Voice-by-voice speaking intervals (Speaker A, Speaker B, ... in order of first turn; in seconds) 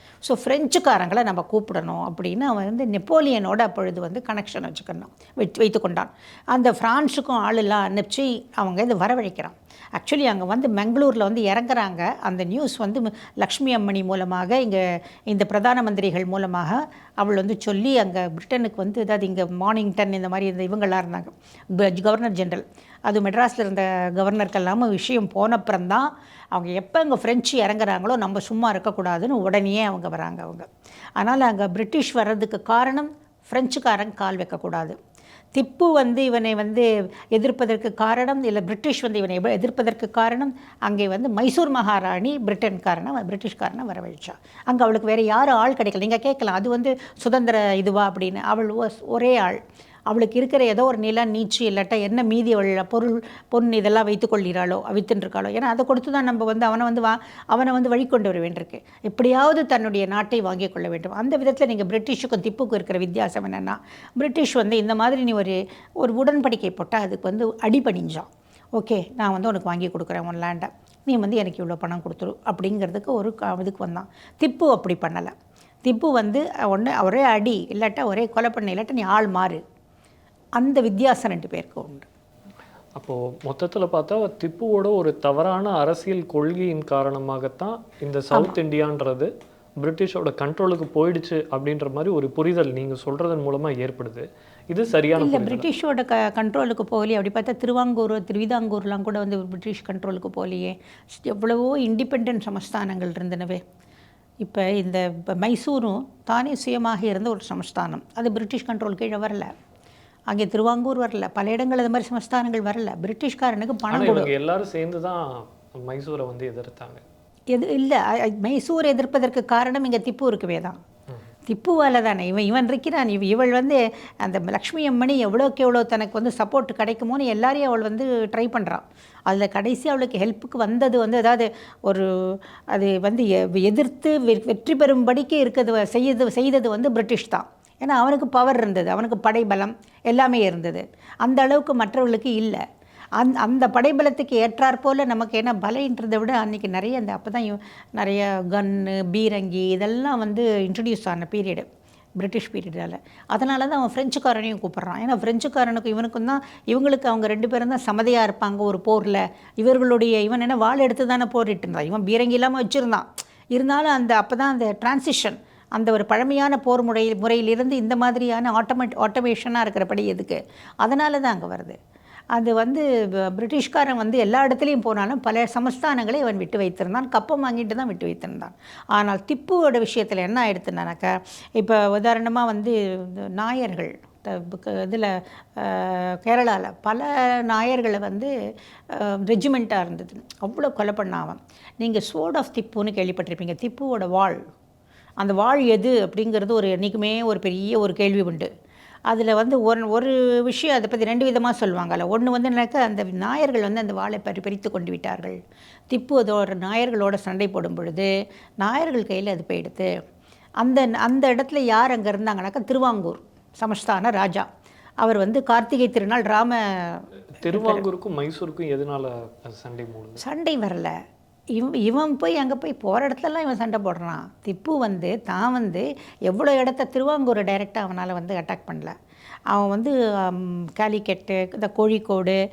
Speaker A: 0.2-35.0, 35.5-75.3, 75.8-79.6, 80.6-82.0, 88.3-88.6, 95.2-103.6, 104.4-109.5, 110.3-114.3, 117.5-120.8, 121.5-142.6, 143.2-151.7, 152.2-171.8, 172.3-188.3, 188.9-194.4, 195.2-198.5, 199.1-205.4, 205.9-208.1, 208.6-209.9, 210.6-214.5, 215.0-217.8, 220.2-221.0, 221.5-228.9, 229.5-232.4
Speaker B: 82.9-89.3, 89.8-95.7, 113.9-117.0, 217.4-220.2